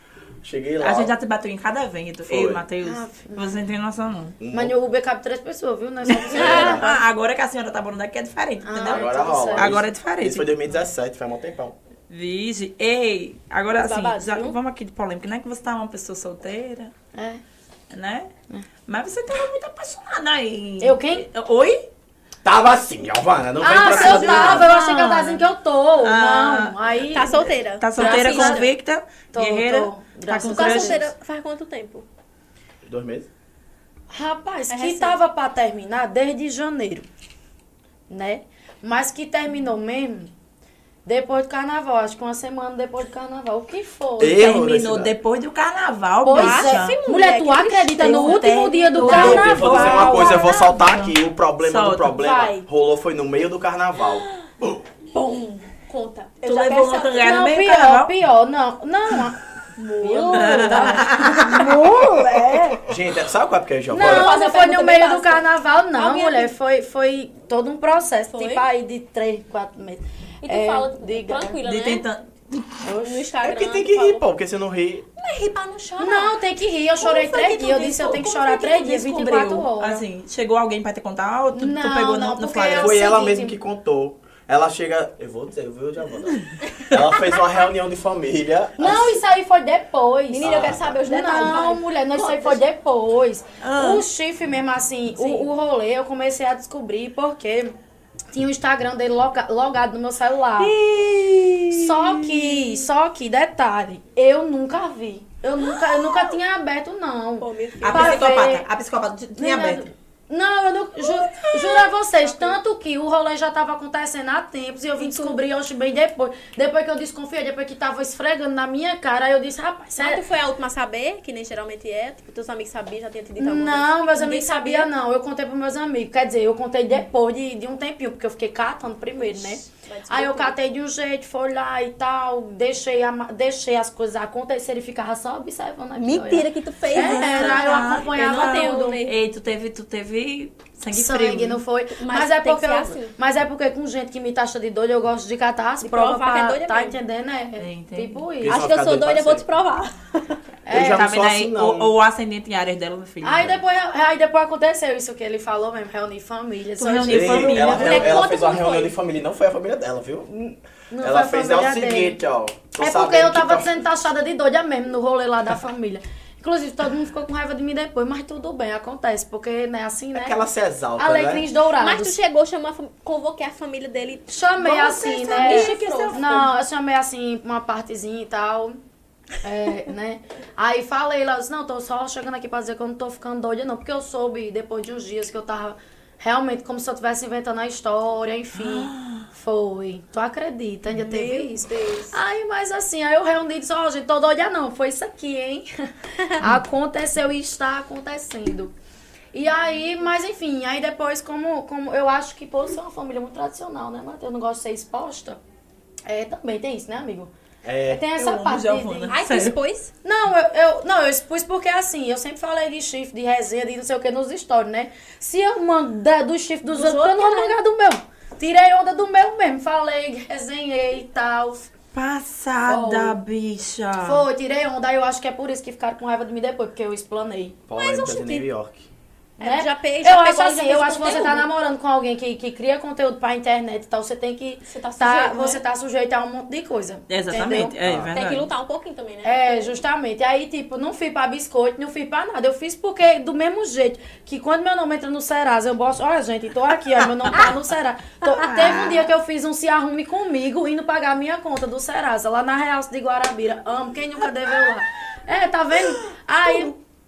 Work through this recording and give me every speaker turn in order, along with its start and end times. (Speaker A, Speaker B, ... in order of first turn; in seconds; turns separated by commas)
Speaker A: 0.4-1.1, Speaker B: 0.8-4.4, Speaker A: 2.2-2.6, Speaker C: 2.8-3.6, Speaker A: 4.4-4.7, Speaker C: 4.5-7.0, Speaker B: 6.1-10.5, Speaker A: 6.3-6.8, Speaker D: 6.4-6.8, Speaker C: 8.6-9.7, Speaker A: 8.8-11.7, Speaker B: 12.1-16.9, Speaker D: 13.8-14.6, Speaker C: 17.1-17.4, Speaker B: 17.9-18.3, Speaker B: 18.9-21.8, Speaker C: 20.8-21.2, Speaker A: 22.4-24.7, Speaker C: 23.6-28.7, Speaker B: 23.8-25.4, Speaker B: 26.0-26.8, Speaker D: 27.1-28.7, Speaker B: 27.8-31.1, Speaker C: 29.3-31.1, Speaker D: 30.4-32.0, Speaker A: 32.8-33.3, Speaker C: 34.1-37.1, Speaker D: 34.7-35.2, Speaker C: 38.1-40.3, Speaker C: 41.0-44.4, Speaker A: 44.2-45.1, Speaker B: 44.3-47.0, Speaker C: 46.2-50.6, Speaker D: 46.3-50.5, Speaker B: 48.0-52.2, Speaker A: 49.0-54.8, Speaker D: 52.2-52.6, Speaker D: 54.0-54.3, Speaker D: 55.1-57.3, Speaker B: 56.4-58.1, Speaker C: 57.2-59.4, Speaker D: 59.8-62.8, Speaker C: 60.0-62.0, Speaker B: 60.3-61.6, Speaker A: 62.8-64.3, Speaker C: 63.9-71.6, Speaker D: 63.9-66.5, Speaker D: 68.3-68.7, Speaker D: 70.4-72.0, Speaker B: 71.6-72.8, Speaker C: 72.8-73.3, Speaker D: 73.0-74.2, Speaker A: 73.4-75.0, Speaker D: 75.2-76.4, Speaker C: 76.0-80.0, Speaker D: 77.0-77.5, Speaker B: 77.1-83.0, Speaker C: 81.5-83.5, Speaker A: 82.7-89.2, Speaker B: 86.6-86.9, Speaker C: 88.8-97.7, Speaker D: 90.3-92.6, Speaker A: 90.4-91.0, Speaker B: 93.6-94.0, Speaker D: 95.1-95.5, Speaker C: 98.3-100.7, Speaker B: 100.6-102.5, Speaker C: 101.7-108.7, Speaker D: 105.7-106.3, Speaker D: 107.4-108.3, Speaker B: 107.8-109.8, Speaker C: 109.4-120.2, Speaker B: 111.1-111.7, Speaker D: 112.2-112.6, Speaker D: 115.0-115.4, Speaker D: 120.0-124.9, Speaker C: 123.4-139.0, Speaker D: 129.2-130.6, Speaker D: 136.0-139.2, Speaker B: 136.9-141.6, Speaker C: 140.9-148.6, Speaker D: 141.9-143.1, Speaker D: 145.8-147.0, Speaker B: 147.6-148.2, Speaker A: 148.4-149.4, Speaker D: 148.4-150.4, Speaker C: 150.7-151.1, Speaker A: 150.7-151.9, Speaker B: 150.7-153.5, Speaker C: 153.2-158.2, Speaker B: 156.8-158.2, Speaker A: 157.1-160.3, Speaker D: 157.5-158.9, Speaker C: 160.4-162.2, Speaker A: 161.0-163.8, Speaker C: 162.8-170.4, Speaker A: 170.1-171.5, Speaker C: 171.0-172.2, Speaker D: 171.8-176.5, Speaker C: 174.3-178.8, Speaker B: 174.6-176.2, Speaker C: 179.4-198.7, Speaker B: 188.5-189.3, Speaker D: 190.9-192.2, Speaker C: 199.3-205.4, Speaker C: 206.1-207.3, Speaker A: 207.6-208.0, Speaker C: 207.9-209.2, Speaker B: 208.1-209.6, Speaker D: 209.1-209.9, Speaker C: 210.0-221.7, Speaker D: 216.7-217.6, Speaker B: 221.9-224.2, Speaker C: 222.7-223.2, Speaker C: 224.0-227.6, Speaker A: 227.7-228.9, Speaker D: 227.8-228.5, Speaker D: 229.4-231.5, Speaker C: 229.4-237.8, Speaker D: 234.7-235.6, Speaker B: 237.1-238.5, Speaker A: 237.8-238.1, Speaker D: 238.1-239.8, Speaker C: 239.2-256.8, Speaker B: 248.4-249.1, Speaker D: 248.4-248.8